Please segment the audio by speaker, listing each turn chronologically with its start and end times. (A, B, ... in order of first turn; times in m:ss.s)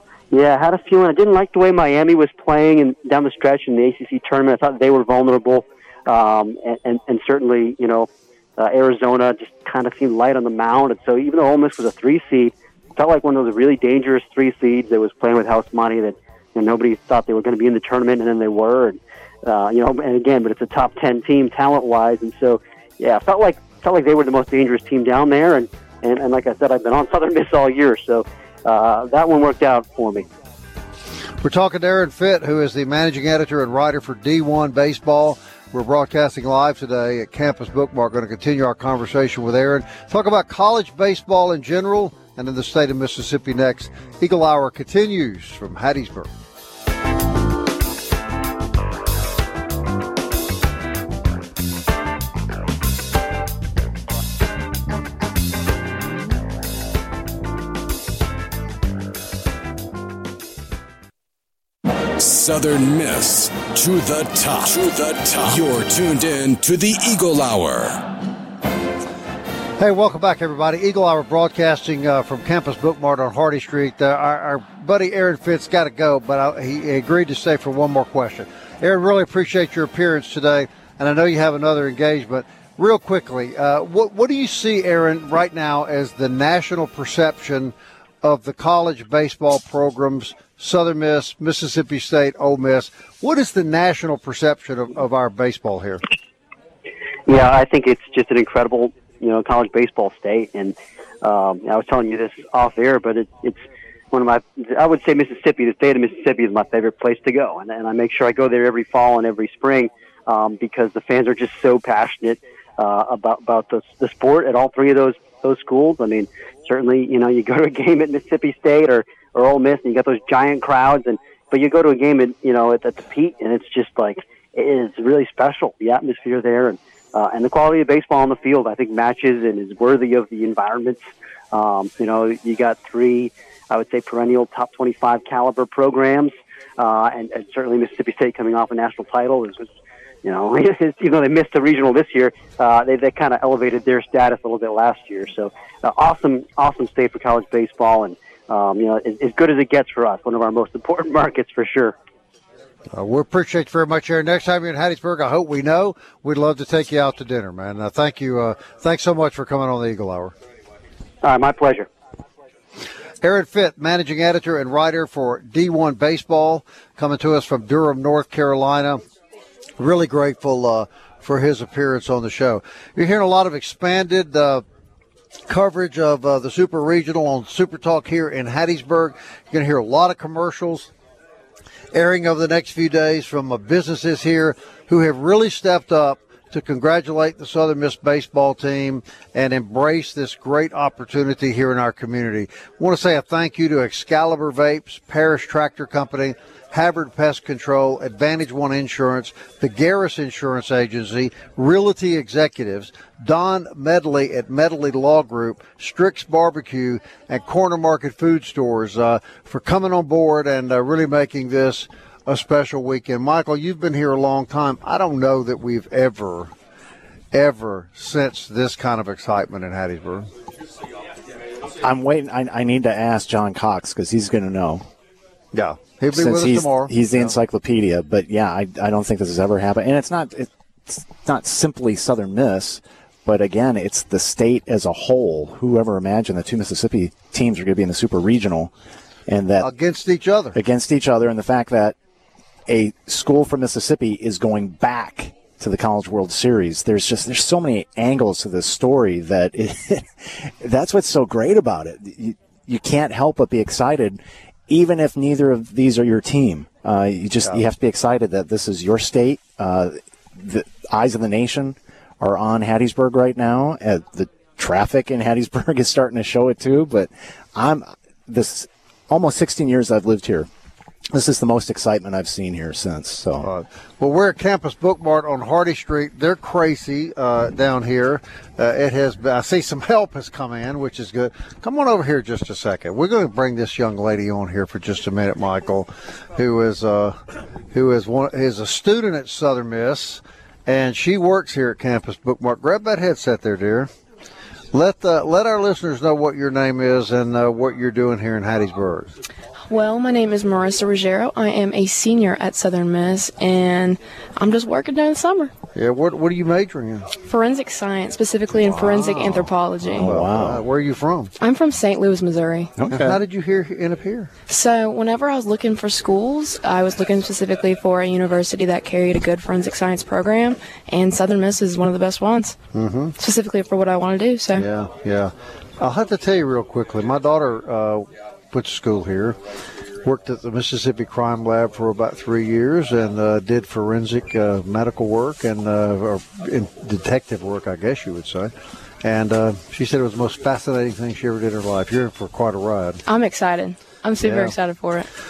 0:00.3-0:30.3 A
0:31.4-0:46.3 B
1:02.2-1:08.0 C
1:09.8-1:36.0 B
1:37.3-2:19.7 A
2:20.2-2:31.9 A
2:32.9-2:40.3 B
2:41.2-2:41.9 A
2:43.2-2:49.0 B
2:49.8-2:54.6 B
2:55.5-3:00.9 B
3:01.9-3:36.5 B
3:37.3-3:40.3 B
3:41.8-3:44.9 D
3:45.5-3:47.4 B
3:46.1-3:58.7 D
3:59.3-3:59.7 D
3:59.6-4:00.6 B
4:00.5-4:02.0 D
4:02.7-4:30.5 D
4:31.1-4:33.5 D
4:33.4-4:47.2 B
4:47.7-4:53.9 B
4:54.7-4:59.1 B
4:59.7-5:05.5 E
5:05.8-5:07.1 B
5:07.2-5:10.1 E
5:08.8-5:09.5 B
5:09.8-5:10.6 D
5:10.0-5:11.3 B
5:11.4-5:12.7 E
5:12.8-5:13.2 D
5:12.9-5:14.3 B
5:14.5-5:22.6 E
5:22.7-5:23.2 B
5:23.2-5:24.7 E
5:24.6-5:29.4 B
5:30.0-5:38.5 B
5:39.0-5:43.0 B
5:43.1-5:45.1 E
5:44.2-5:44.5 B